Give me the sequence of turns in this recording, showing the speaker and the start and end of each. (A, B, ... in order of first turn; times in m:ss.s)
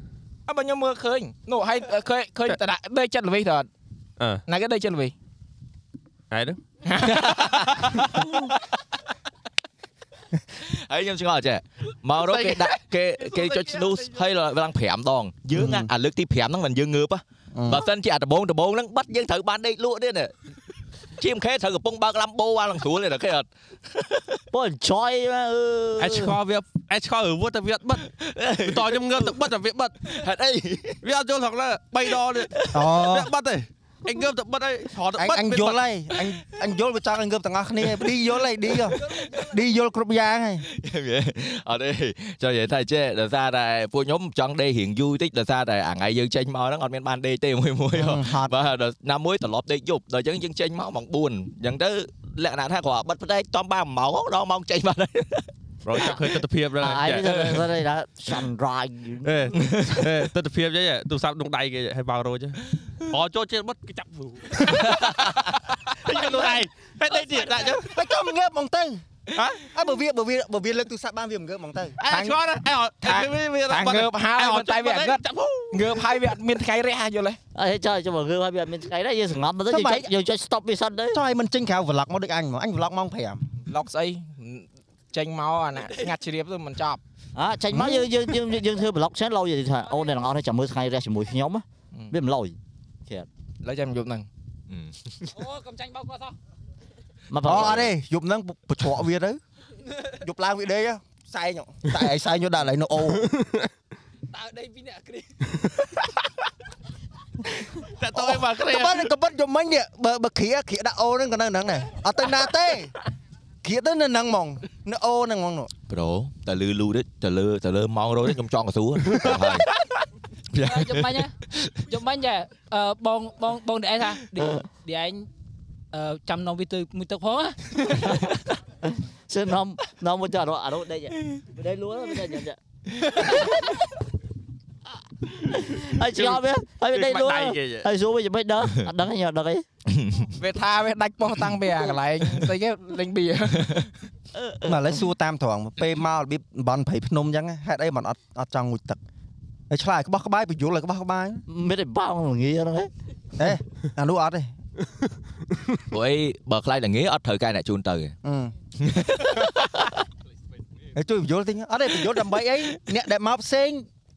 0:00.5-0:03.7 A
0:04.5-0:05.1 A
0:06.3-0:06.6 B
0:06.9-0:08.3 A
0:07.0-0:08.2 C
0:10.6-0:20.3 C
0:12.2-0:12.8 A
0:15.5-0:15.9 D
0:17.5-0:17.8 D
0:21.2-0:24.4 C
0:24.5-0:26.4 E
0:26.0-0:28.1 B
0:28.0-0:29.2 C
0:28.6-0:30.2 B
0:30.0-0:31.0 C
0:31.0-0:35.8 B
0:32.1-0:32.8 C
0:32.7-0:33.3 D
0:35.2-0:40.7 D
0:40.7-0:55.5 C
0:47.9-0:48.5 D
0:55.8-0:57.7 B
0:56.8-0:59.5 E
0:59.2-1:07.9 B
0:59.6-1:00.3 C
1:04.8-1:05.3 C
1:06.2-1:06.6 D
1:07.2-1:07.7 F
1:07.8-1:09.0 D
1:09.4-1:09.7 B
1:09.6-1:12.1 D
1:12.0-1:16.4 B
1:12.1-1:17.4 A
1:17.6-1:21.2 E
1:19.7-1:20.1 D
1:21.1-1:23.4 D
1:23.7-1:27.0 A
1:27.4-1:32.6 E
1:27.7-1:28.4 D
1:29.9-1:30.1 F
1:33.6-1:34.3 A
1:34.7-1:35.3 C
1:35.3-1:36.4 F
1:37.3-1:37.9 E
1:37.4-1:39.4 D
1:37.5-1:37.9 C
1:40.1-1:43.3 D
1:44.3-1:45.4 F
1:47.8-1:49.1 B
1:48.1-1:52.9 D
1:53.6-1:55.7 D
1:55.9-1:59.7 C
2:00.5-2:01.7 C
2:00.6-2:01.3 F
2:01.9-2:05.3 F
2:05.9-2:07.6 F
2:07.9-2:12.6 E
2:13.1-2:13.6 E
2:15.4-2:19.6 E
2:15.6-2:16.4 B
2:16.9-2:17.9 B
2:20.0-2:20.3 C
2:20.4-2:23.8 A
2:24.4-2:24.7 E
2:24.6-2:29.0 D
2:29.7-2:31.4 D
2:31.5-2:32.9 E
2:33.4-2:34.5 D
2:35.9-2:38.2 C
2:38.2-2:38.5 D
2:38.8-2:39.9 C
2:41.0-2:43.9 D